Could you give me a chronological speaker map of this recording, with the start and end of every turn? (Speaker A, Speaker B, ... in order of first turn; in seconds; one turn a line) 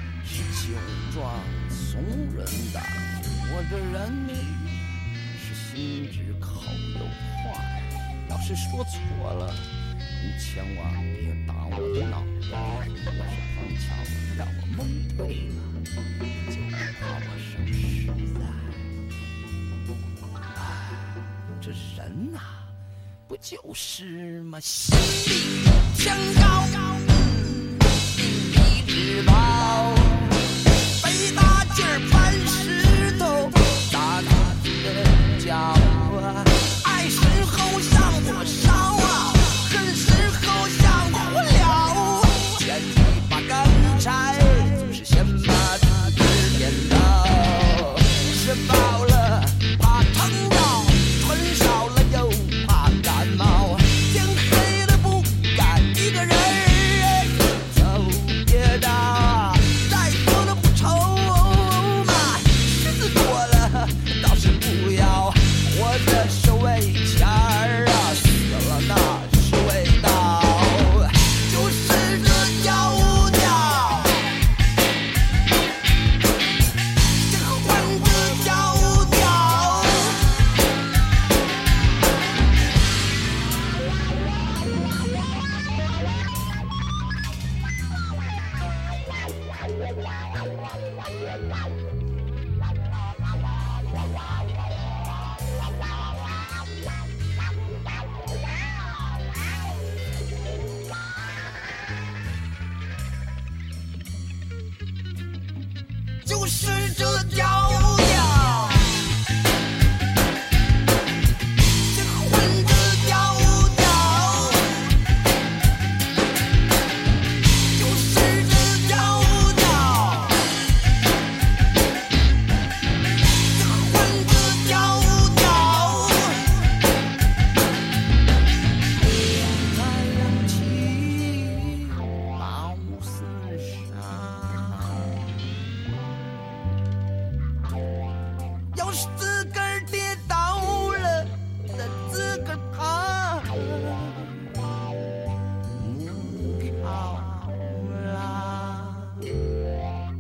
Speaker A: 0.2-18.9
Speaker A: 20.5-22.7
Speaker A: 23.3-74.4
Speaker A: 77.2-80.4
Speaker A: 106.2-109.2
Speaker A: 111.8-114.9
Speaker A: 117.7-120.5
Speaker A: 123.3-126.7
Speaker A: 129.1-135.5
Speaker A: 138.7-144.3
Speaker A: 145.7-149.3